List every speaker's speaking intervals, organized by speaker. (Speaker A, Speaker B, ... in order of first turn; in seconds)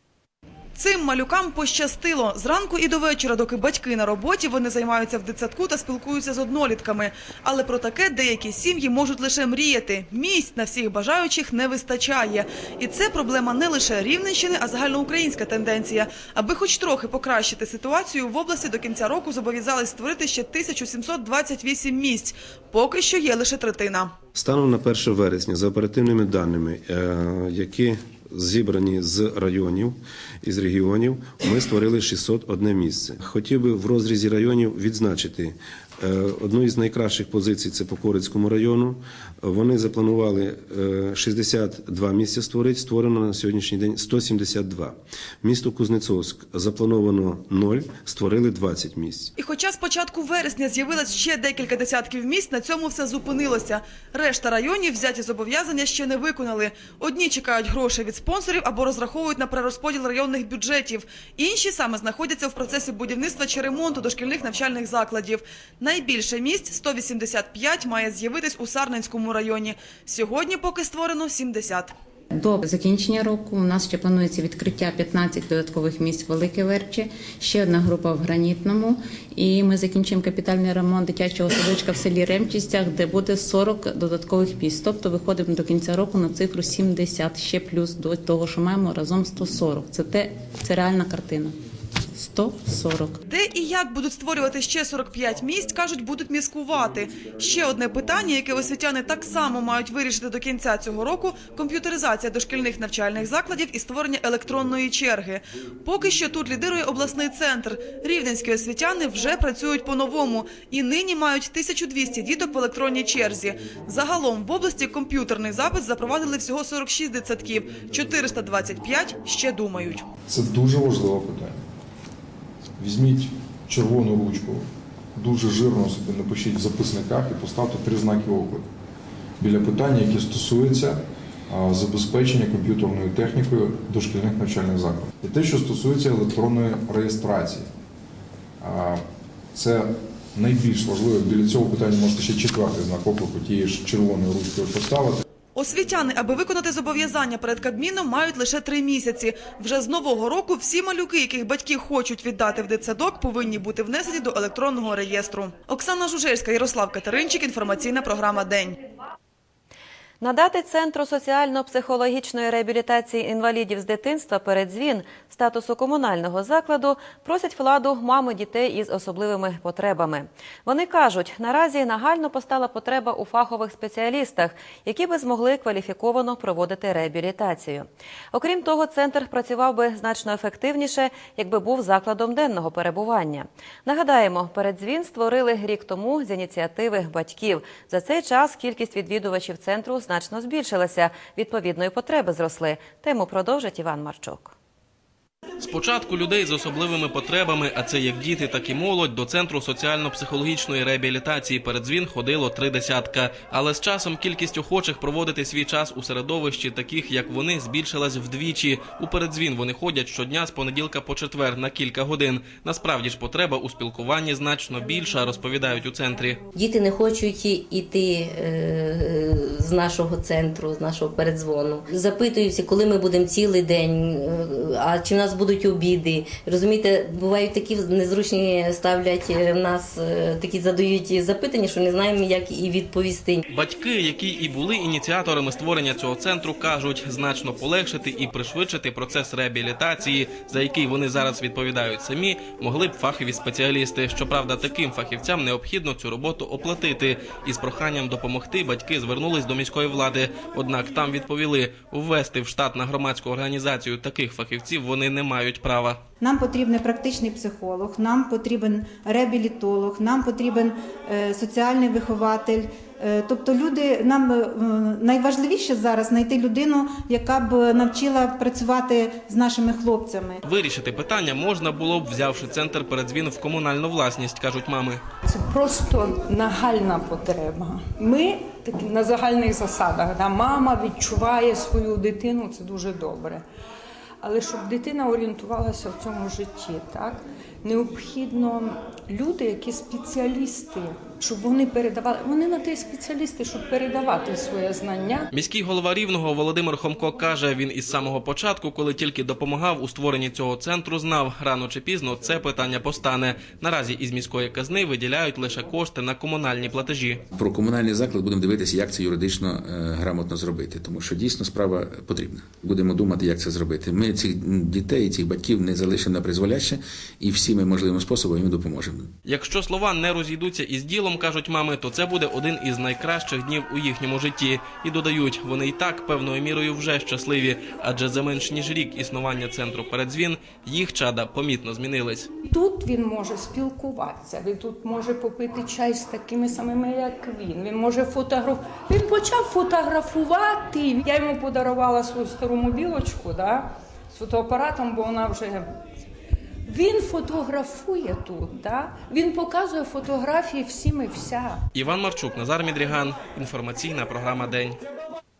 Speaker A: 0.8-24.1, 49.4-71.9, 93.3-120.0, 145.6-158.8
Speaker B: 24.4-49.3
Speaker C: 72.4-91.6, 92.2-93.2
Speaker D: 120.3-121.6, 122.8-128.7, 129.4-137.7, 138.6-145.2
Speaker E: 160.2-194.5
Speaker F: 195.6-216.4, 233.5-256.0, 270.4-275.0, 295.3-307.2, 319.2-332.3, 351.7-354.8
Speaker G: 216.6-233.4
Speaker H: 256.2-270.4
Speaker I: 275.2-283.4, 284.2-295.3, 332.5-345.6, 346.7-351.6
Speaker J: 307.4-319.1